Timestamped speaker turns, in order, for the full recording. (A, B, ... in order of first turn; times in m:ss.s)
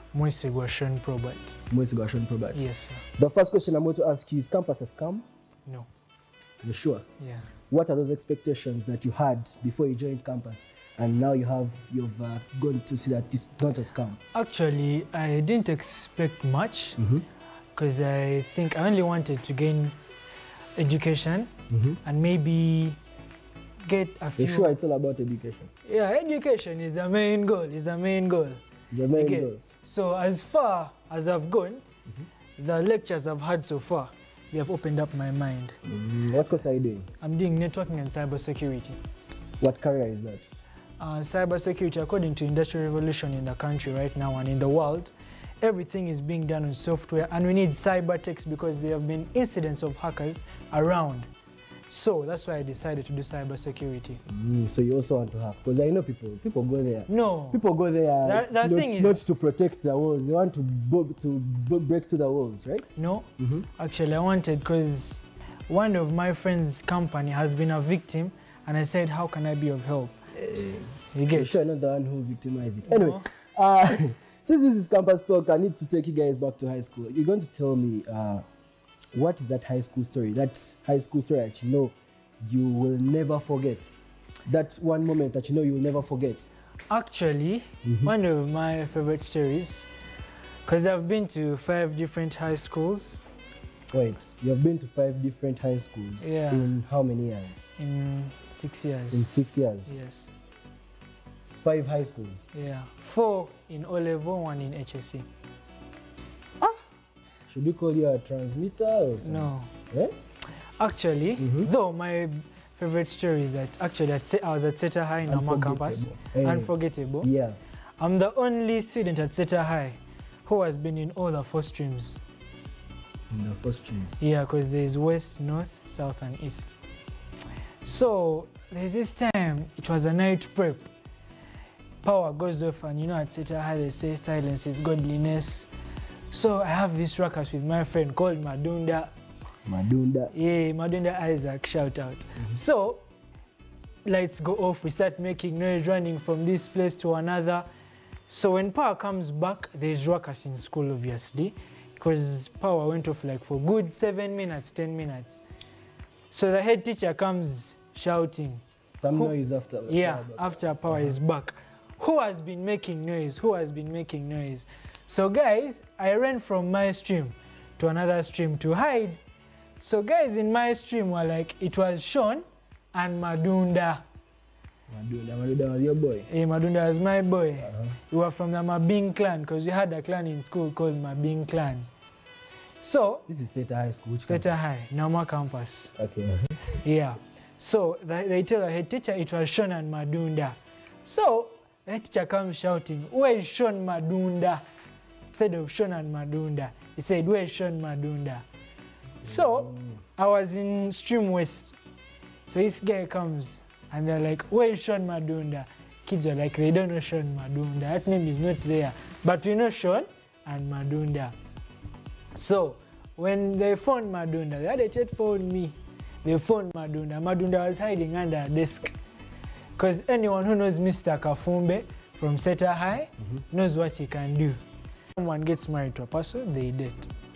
0:00.1-0:01.6 A
0:01.7-0:02.6 B
0:02.5-0:03.0 A
0:03.2-0:05.2 B
0:06.6-0:07.1 B
0:07.2-0:07.5 A
0:07.7-0:14.2 B
0:14.3-0:17.0 A
0:17.0-0:17.2 B
0:17.7-0:20.0 A
0:20.8-0:21.5 A
0:21.7-0:22.0 B
0:22.0-0:23.0 A
0:23.8-0:24.8 A
0:24.4-0:25.7 B
0:25.8-0:31.8 A
0:28.9-0:29.6 B
0:32.6-0:35.8 A
0:35.8-0:37.1 B
0:37.2-0:39.0 A
0:39.6-0:40.5 B
0:41.0-0:51.3 A
0:51.9-0:54.2 A
0:54.3-1:02.9 B
0:57.1-0:57.6 A
0:58.2-0:59.2 A
1:03.0-1:10.2 A
1:03.4-1:03.7 B
1:10.3-1:18.4 B
1:11.1-1:11.6 A
1:12.8-1:13.3 A
1:19.1-1:26.5 B
1:26.9-1:29.9 A
1:27.8-1:28.1 B
1:30.6-1:33.2 A
1:33.9-1:37.6 B
1:36.2-1:36.8 A
1:37.8-1:39.2 A
1:39.1-1:39.9 B
1:39.9-1:40.3 A
1:41.5-1:42.4 B
1:42.5-1:45.3 A
1:47.5-1:50.1 B
1:49.2-1:49.7 A
1:50.8-1:57.3 A
1:51.4-1:51.7 B
1:55.3-1:57.6 B
1:58.0-2:02.2 A
2:03.3-2:04.2 B
2:04.2-2:06.7 A
2:07.8-2:10.9 A
2:12.0-2:15.7 A
2:16.3-2:19.1 A
2:19.6-2:20.3 B
2:20.3-2:23.0 A
2:24.0-2:27.6 A
2:28.3-2:35.4 A
2:36.3-2:39.3 A
2:39.0-2:41.2 B
2:39.9-2:49.2 A
2:49.8-2:54.0 A
2:54.9-2:56.3 B
2:56.3-3:01.9 A
2:57.6-2:57.9 B
3:02.8-3:03.2 A
3:03.3-3:04.6 B
3:04.3-3:05.9 A
3:06.0-3:06.6 B
3:06.8-3:14.6 A
3:15.3-3:18.4 A
3:19.2-3:21.8 A
3:19.2-3:20.0 B
3:22.5-3:31.3 A
3:32.3-3:39.0 A
3:39.8-3:44.6 A
3:45.2-3:47.1 A